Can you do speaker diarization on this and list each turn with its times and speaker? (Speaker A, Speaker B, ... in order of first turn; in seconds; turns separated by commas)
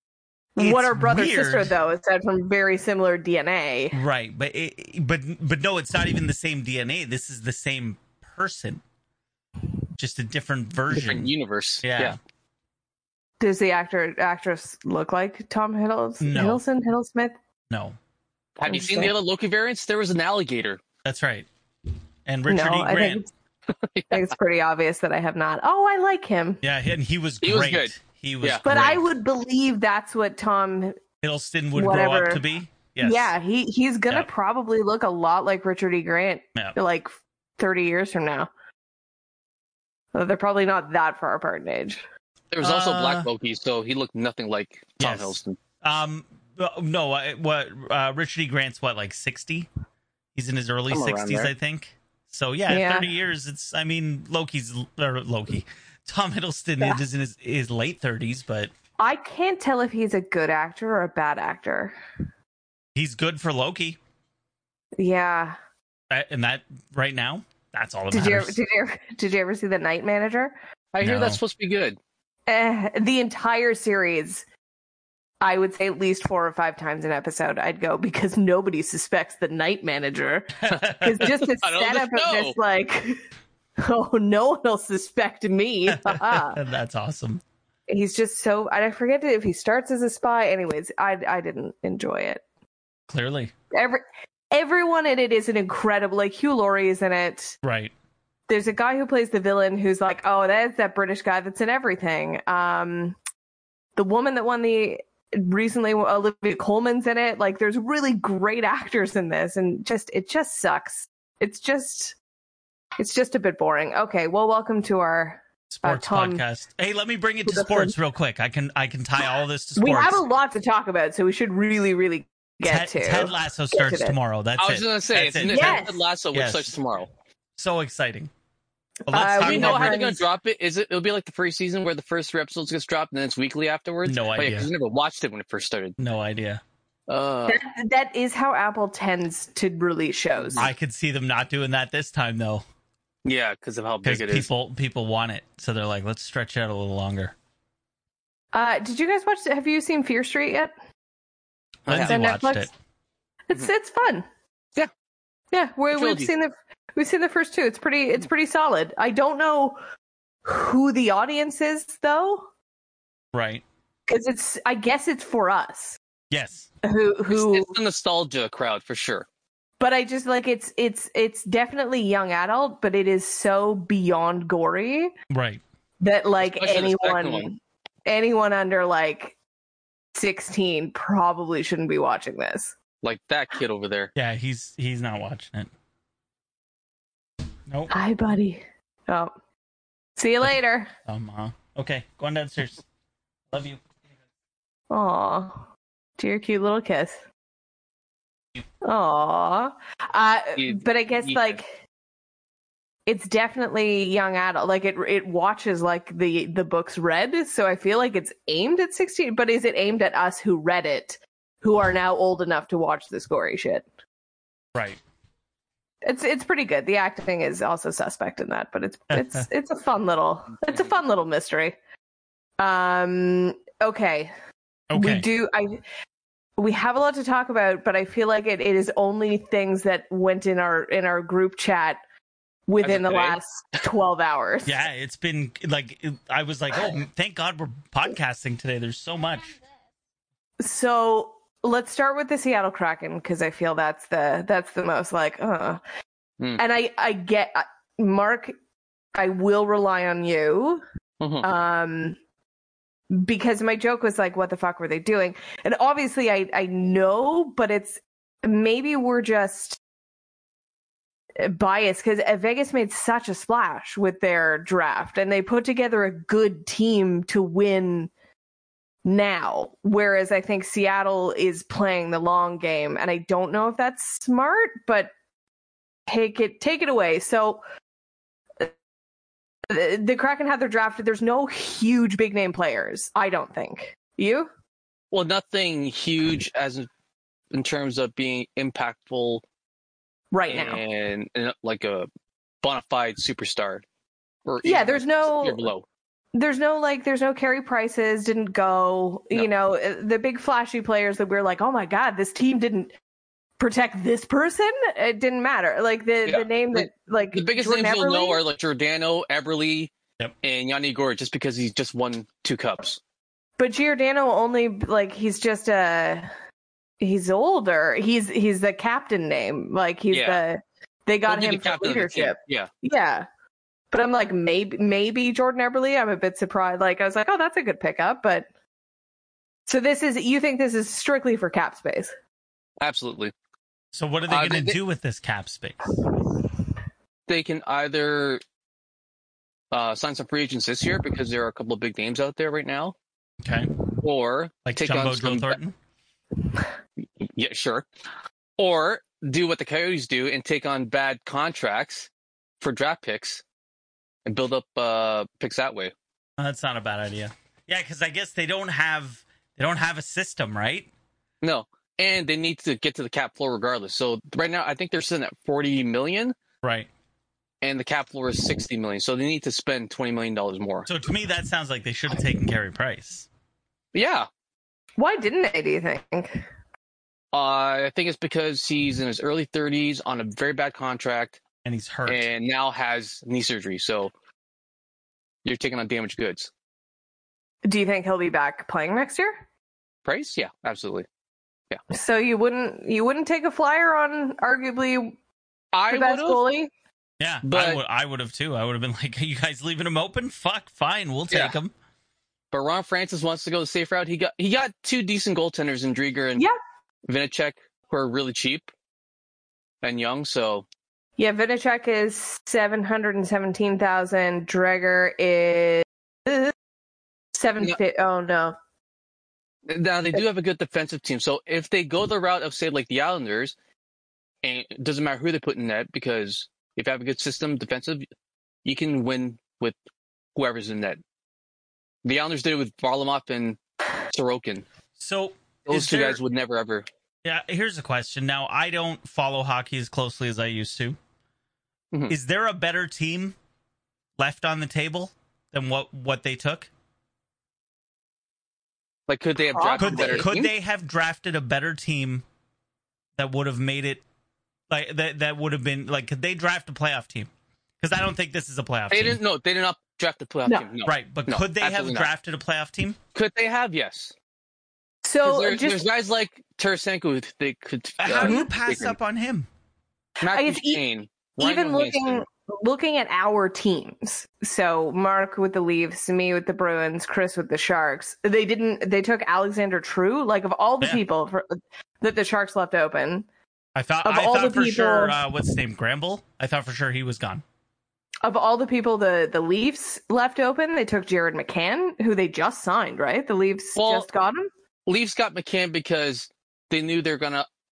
Speaker A: 0.6-4.0, Speaker B: 0.6-1.8, Speaker B: 3.9-8.8, Speaker B: 10.0-11.3, Speaker C: 10.9-12.2, Speaker B: 11.8-12.2, Speaker A: 13.4-17.4, Speaker B: 16.2-16.6, Speaker B: 17.7-18.0, Speaker C: 18.6-20.8, Speaker A: 18.6-19.1, Speaker B: 21.1-21.5, Speaker B: 22.2-23.2, Speaker A: 22.5-23.3, Speaker C: 23.8-24.3, Speaker A: 24.1-26.6, Speaker B: 26.6-29.0, Speaker C: 27.4-28.6, Speaker A: 28.6-30.9, Speaker B: 31.2-33.3, Speaker A: 31.8-32.4, Speaker A: 33.0-38.5, Speaker A: 40.1-42.0, Speaker C: 42.5-45.6, Speaker B: 42.6-43.3, Speaker B: 45.0-49.7, Speaker B: 50.3-58.7, Speaker C: 50.9-51.5, Speaker A: 52.7-53.1, Speaker A: 59.0-61.9, Speaker B: 62.9-64.0, Speaker A: 65.0-65.6, Speaker B: 66.1-68.6, Speaker A: 68.1-70.5, Speaker C: 70.9-72.0, Speaker B: 71.0-71.4, Speaker A: 72.5-74.4, Speaker A: 75.4-83.2, Speaker B: 80.6-81.2, Speaker C: 81.2-82.6, Speaker A: 83.8-86.6, Speaker B: 85.9-87.4, Speaker A: 87.9-92.4, Speaker B: 93.1-93.5, Speaker A: 93.7-97.6, Speaker B: 97.6-97.9, Speaker A: 98.5-103.2, Speaker A: 104.0-112.2, Speaker A: 113.0-116.4, Speaker B: 115.7-120.2, Speaker A: 117.5-118.0, Speaker A: 119.8-124.2, Speaker B: 122.6-125.8, Speaker C: 124.6-127.1, Speaker A: 125.4-126.0, Speaker B: 126.3-126.8, Speaker B: 127.6-128.3, Speaker A: 129.1-130.2, Speaker B: 129.1-130.0, Speaker C: 129.4-136.0, Speaker B: 134.1-134.7, Speaker B: 136.0-136.6, Speaker C: 137.1-137.6, Speaker A: 137.5-140.7, Speaker C: 140.4-140.7, Speaker B: 140.6-142.6, Speaker C: 143.2-144.5, Speaker B: 144.0-147.3, Speaker A: 148.5-150.7, Speaker B: 151.8-152.7, Speaker C: 151.9-152.2, Speaker A: 151.9-152.7, Speaker A: 153.5-154.3, Speaker A: 155.5-159.8, Speaker C: 155.9-156.3, Speaker A: 160.4-162.5, Speaker B: 163.3-163.6, Speaker A: 164.1-166.0, Speaker B: 166.3-166.7, Speaker A: 166.8-167.7, Speaker C: 167.3-169.3, Speaker A: 169.8-175.1, Speaker B: 175.3-175.6, Speaker A: 176.0-179.3, Speaker C: 176.5-177.4, Speaker A: 180.1-182.7, Speaker C: 183.0-184.1, Speaker B: 184.2-185.7, Speaker B: 187.7-187.9, Speaker A: 187.9-189.3, Speaker A: 190.2-190.9, Speaker B: 191.1-192.8, Speaker B: 193.5-193.8, Speaker A: 194.9-195.7, Speaker A: 196.2-197.2, Speaker A: 198.8-201.8, Speaker C: 200.6-201.6, Speaker A: 203.1-213.8, Speaker B: 214.7-215.0, Speaker A: 216.0-221.8, Speaker B: 219.1-219.4, Speaker A: 222.6-224.3, Speaker B: 224.9-225.2, Speaker A: 224.9-225.8, Speaker A: 226.6-232.0, Speaker A: 232.7-234.8, Speaker C: 232.8-233.4, Speaker B: 234.7-239.6, Speaker A: 240.6-245.8, Speaker A: 246.6-248.5, Speaker A: 249.1-250.8, Speaker C: 251.2-251.4, Speaker A: 251.4-252.2, Speaker A: 253.1-259.8, Speaker A: 261.4-268.1, Speaker A: 269.1-275.1, Speaker A: 276.1-277.6, Speaker A: 279.7-284.5, Speaker C: 285.1-286.9, Speaker C: 287.5-289.4, Speaker A: 290.3-290.8, Speaker C: 290.5-292.1, Speaker C: 292.6-293.8, Speaker C: 294.4-295.8, Speaker A: 294.6-295.7, Speaker A: 296.3-302.9, Speaker A: 303.6-308.4, Speaker C: 306.3-309.9, Speaker C: 310.4-313.0, Speaker A: 313.6-316.3, Speaker A: 317.0-323.3, Speaker C: 320.1-320.4, Speaker C: 321.3-322.7, Speaker A: 323.9-328.5, Speaker A: 329.7-332.1, Speaker C: 332.8-333.3, Speaker B: 333.9-335.9, Speaker C: 334.3-334.8, Speaker C: 337.3-338.4, Speaker C: 339.7-342.9, Speaker B: 343.4-343.7, Speaker C: 344.0-345.6, Speaker B: 344.6-345.8, Speaker C: 347.0-347.9, Speaker C: 348.6-352.1, Speaker C: 352.6-353.4, Speaker C: 354.2-355.9, Speaker B: 356.4-360.9, Speaker C: 361.4-366.3, Speaker B: 366.6-366.9, Speaker C: 367.6-370.9, Speaker B: 370.9-373.3, Speaker C: 373.9-374.3, Speaker A: 375.0-376.4, Speaker C: 377.3-381.4, Speaker B: 381.6-382.3, Speaker C: 382.1-384.1, Speaker C: 385.4-386.5, Speaker A: 387.6-389.4, Speaker C: 390.1-391.1, Speaker A: 391.9-395.2, Speaker C: 395.7-396.4, Speaker A: 395.9-396.7, Speaker B: 397.2-401.7, Speaker C: 397.4-397.8, Speaker C: 401.3-401.6, Speaker C: 402.5-406.4, Speaker C: 407.1-408.7, Speaker C: 409.8-410.6, Speaker A: 411.2-416.5, Speaker A: 417.3-418.6, Speaker C: 419.7-423.6, Speaker C: 424.4-428.1, Speaker C: 428.6-429.7, Speaker C: 430.3-431.0, Speaker C: 432.0-433.6, Speaker C: 434.1-434.6, Speaker B: 435.0-436.2, Speaker C: 435.6-436.9, Speaker B: 437.2-441.0, Speaker B: 442.1-443.4, Speaker B: 444.2-446.7, Speaker C: 449.1-450.5, Speaker A: 449.5-450.3, Speaker B: 449.8-452.2, Speaker B: 453.2-454.0, Speaker B: 454.7-459.2, Speaker C: 458.9-462.1, Speaker B: 460.8-463.0, Speaker C: 463.1-464.1, Speaker A: 465.0-465.8, Speaker C: 465.2-468.9, Speaker B: 468.0-469.5, Speaker A: 468.2-468.5, Speaker C: 470.2-472.2, Speaker A: 470.2-470.8, Speaker A: 471.4-483.3, Speaker B: 483.7-487.4, Speaker A: 484.0-485.3, Speaker A: 488.2-494.5, Speaker C: 493.8-494.1, Speaker C: 494.9-497.4